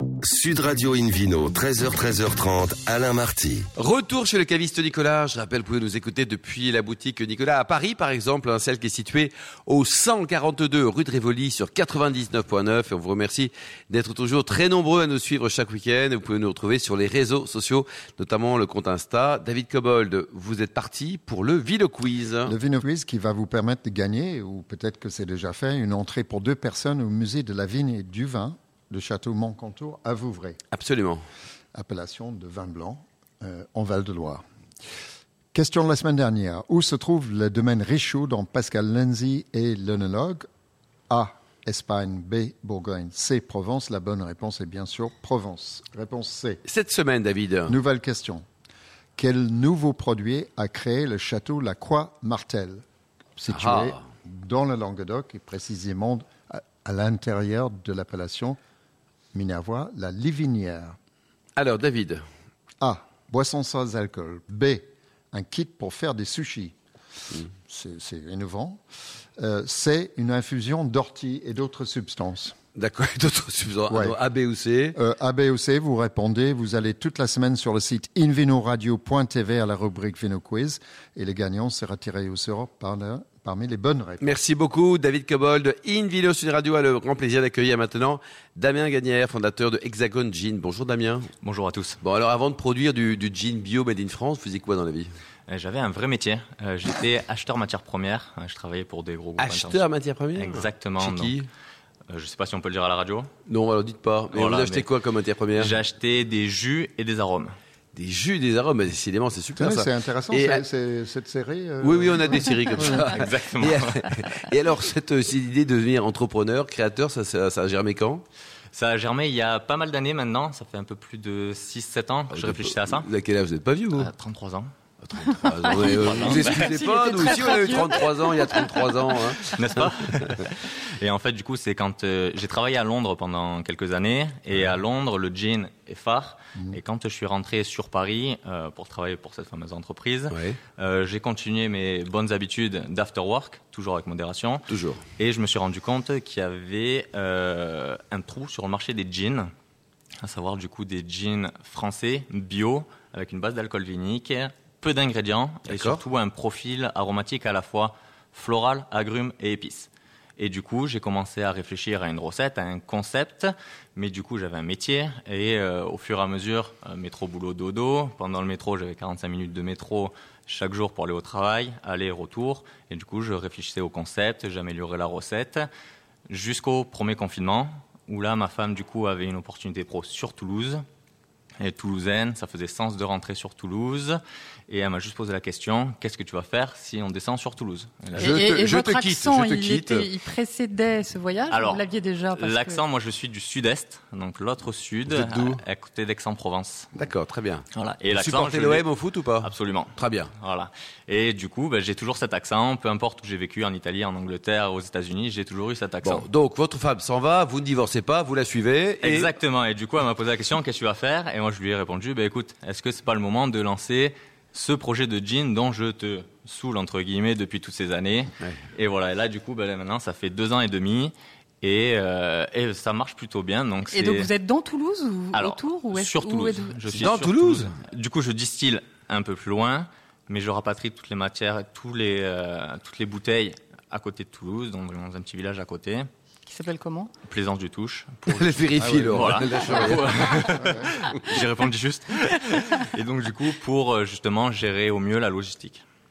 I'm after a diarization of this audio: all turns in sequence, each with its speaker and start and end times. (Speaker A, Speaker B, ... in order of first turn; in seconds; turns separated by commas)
Speaker A: 0.2-3.7, Speaker B: 3.8-22.5, Speaker C: 22.4-30.6, Speaker B: 30.7-31.2, Speaker C: 31.7-34.4, Speaker C: 35.5-40.5, Speaker C: 41.1-46.6, Speaker B: 46.6-47.8, Speaker C: 47.7-48.5, Speaker C: 49.2-52.8, Speaker C: 53.4-58.6, Speaker B: 53.5-54.0, Speaker C: 59.3-61.0, Speaker B: 61.6-62.2, Speaker C: 62.8-66.8, Speaker C: 67.5-68.8, Speaker C: 69.4-72.5, Speaker B: 72.8-75.0, Speaker C: 73.9-74.2, Speaker C: 75.0-84.3, Speaker B: 84.2-91.3, Speaker D: 91.4-92.0, Speaker B: 92.0-95.1, Speaker D: 95.5-101.4, Speaker B: 99.4-101.5, Speaker D: 102.1-103.3, Speaker B: 103.5-105.7, Speaker D: 104.3-104.9, Speaker D: 105.5-107.5, Speaker B: 107.9-110.6, Speaker C: 109.6-113.2, Speaker B: 111.8-118.2, Speaker D: 112.8-114.2, Speaker D: 118.7-123.1, Speaker B: 122.3-124.1, Speaker D: 124.0-124.7, Speaker B: 125.0-130.4, Speaker D: 125.6-126.8, Speaker E: 125.7-129.4, Speaker D: 129.5-149.5, Speaker B: 140.3-140.6, Speaker B: 144.7-145.0, Speaker D: 150.2-175.7, Speaker B: 155.7-156.0, Speaker D: 176.3-180.8, Speaker D: 181.6-188.5, Speaker E: 188.2-192.8, Speaker B: 188.2-190.1, Speaker D: 191.5-196.9, Speaker B: 195.1-195.6, Speaker B: 197.0-200.3, Speaker D: 197.7-206.3, Speaker B: 206.0-209.3, Speaker D: 209.0-224.3, Speaker E: 223.9-227.1, Speaker D: 225.3-236.1, Speaker B: 227.0-227.7, Speaker E: 236.5-237.1, Speaker D: 237.2-245.8, Speaker B: 238.3-240.6, Speaker C: 238.8-240.9